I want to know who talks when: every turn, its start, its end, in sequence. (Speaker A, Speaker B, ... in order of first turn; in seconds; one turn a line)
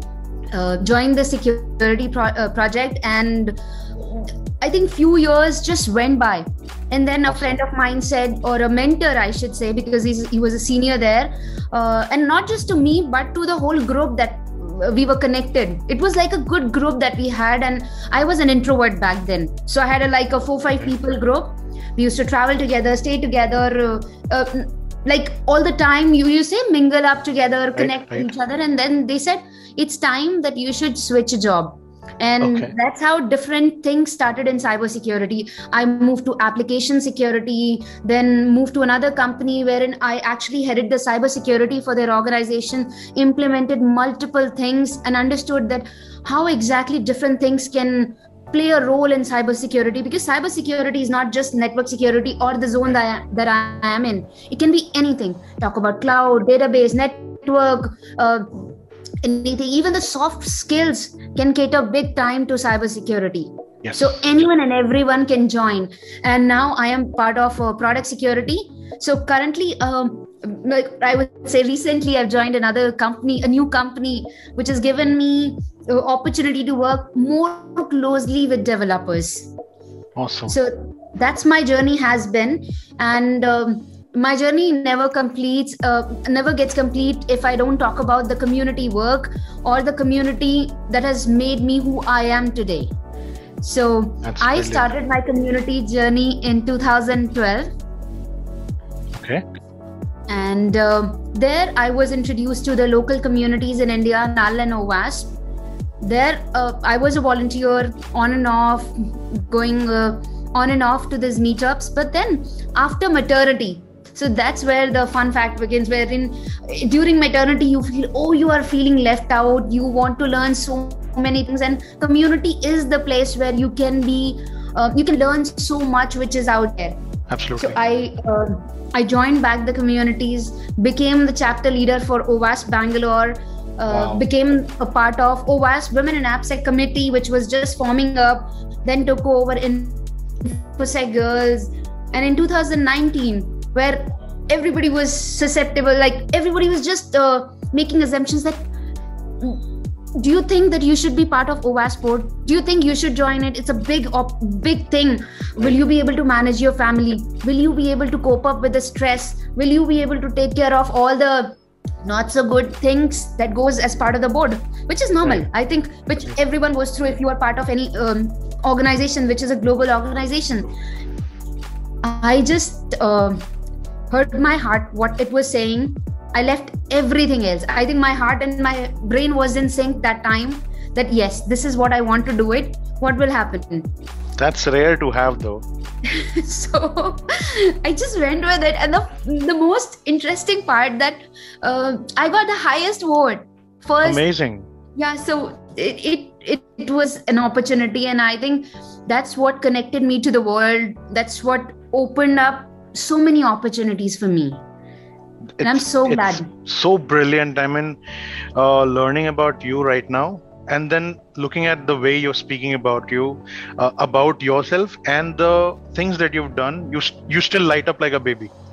Speaker A: 0.5-58.5
Speaker B: 7.3-7.6
Speaker B: 27.8-28.3
Speaker B: 32.4-32.7
Speaker A: 59.2-79.5
Speaker B: 63.8-64.2
Speaker B: 80.2-80.6
Speaker A: 80.5-92.9
Speaker A: 93.6-97.7
Speaker B: 94.2-94.9
Speaker B: 99.1-99.4
Speaker A: 100.3-105.3
Speaker A: 106.0-127.0
Speaker B: 127.3-127.8
Speaker A: 127.6-148.7
Speaker B: 133.9-134.2
Speaker A: 150.2-170.7
Speaker A: 172.0-173.4
Speaker A: 174.1-183.9
Speaker B: 184.4-185.6
Speaker A: 186.1-194.2
Speaker B: 194.0-194.7
Speaker A: 194.9-204.6
Speaker B: 205.6-208.0
Speaker A: 205.6-206.5
Speaker B: 208.5-218.5